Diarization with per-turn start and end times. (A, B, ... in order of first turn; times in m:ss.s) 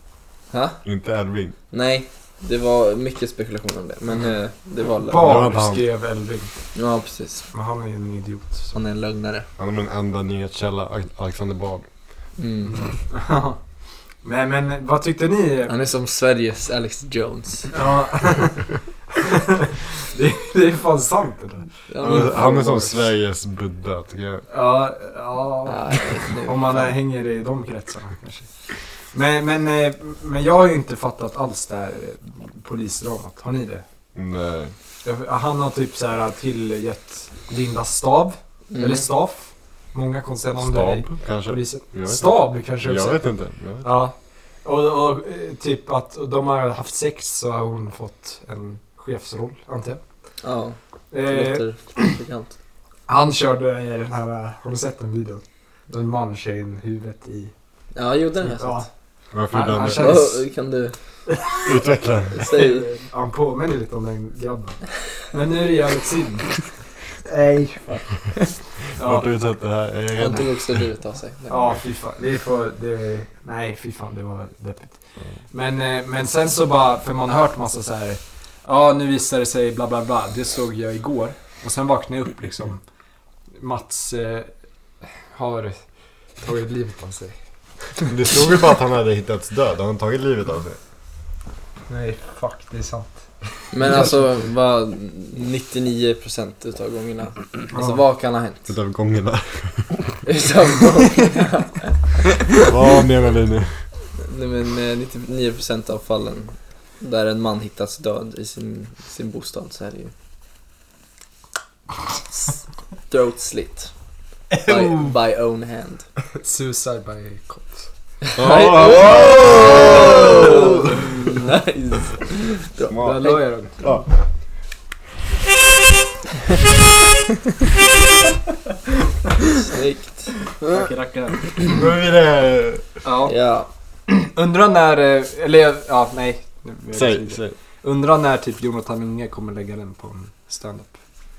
0:00.5-0:00.8 A
0:00.8-0:01.5 B
0:01.7-0:05.4 A
0:05.1-0:06.5 C
0:05.2-0:05.8 B
0:06.8-0:07.5 A
0:07.5-0:08.7 C
0:08.7-0:09.4 A
0:09.6-0:11.8 B
0:12.4-0:12.9 A
0:12.7-0:13.6 C
0:14.2-0:15.7 C
0:15.7-0:17.7 A
0:17.7-0:22.4 C
0:21.9-0:22.9 A
0:22.0-0:24.4 B
0:24.5-0:28.5 C
0:25.6-0:27.0 A
0:29.1-0:33.8 C
0:34.1-0:34.7 B
0:35.0-0:43.2 C
0:38.7-0:39.0 A
0:40.6-0:43.9 B
0:43.8-0:50.0 C
0:50.4-0:52.5 A
0:51.1-0:52.1 C
0:53.1-0:57.5 C
0:58.0-0:58.9 A
0:58.6-0:58.9 C
0:59.3-1:00.2 B
0:59.5-1:00.4 C
0:59.9-1:00.9 A
1:01.6-1:02.4 B
1:02.4-1:02.9 A
1:02.4-1:06.7 C
1:07.2-1:08.1 C
1:08.9-1:09.3 C
1:09.0-1:10.8 B
1:10.2-1:11.7 A
1:11.5-1:22.8 C
1:23.5-1:24.5 C
1:25.2-1:25.8 C
1:26.4-1:27.4 C
1:28.0-1:30.8 B
1:31.9-1:34.3 C
1:33.7-1:38.7 A
1:37.7-1:38.0 C
1:38.7-1:40.2 B
1:40.2-1:42.0 A
1:42.6-1:43.8 B
1:44.2-1:50.1 A
1:53.1-1:53.9 A
1:54.5-1:55.1 C
1:54.6-1:56.0 A
1:56.4-1:57.9 C
1:58.3-2:03.4 A
1:58.4-2:01.0 B
2:00.2-2:01.0 C
2:02.9-2:04.1 B
2:03.0-2:03.9 C
2:09.5-2:10.4 A
2:10.6-2:11.8 C
2:11.6-2:12.9 B
2:13.0-2:13.3 C
2:13.3-2:13.7 A
2:14.1-2:20.9 C
2:16.9-2:17.6 B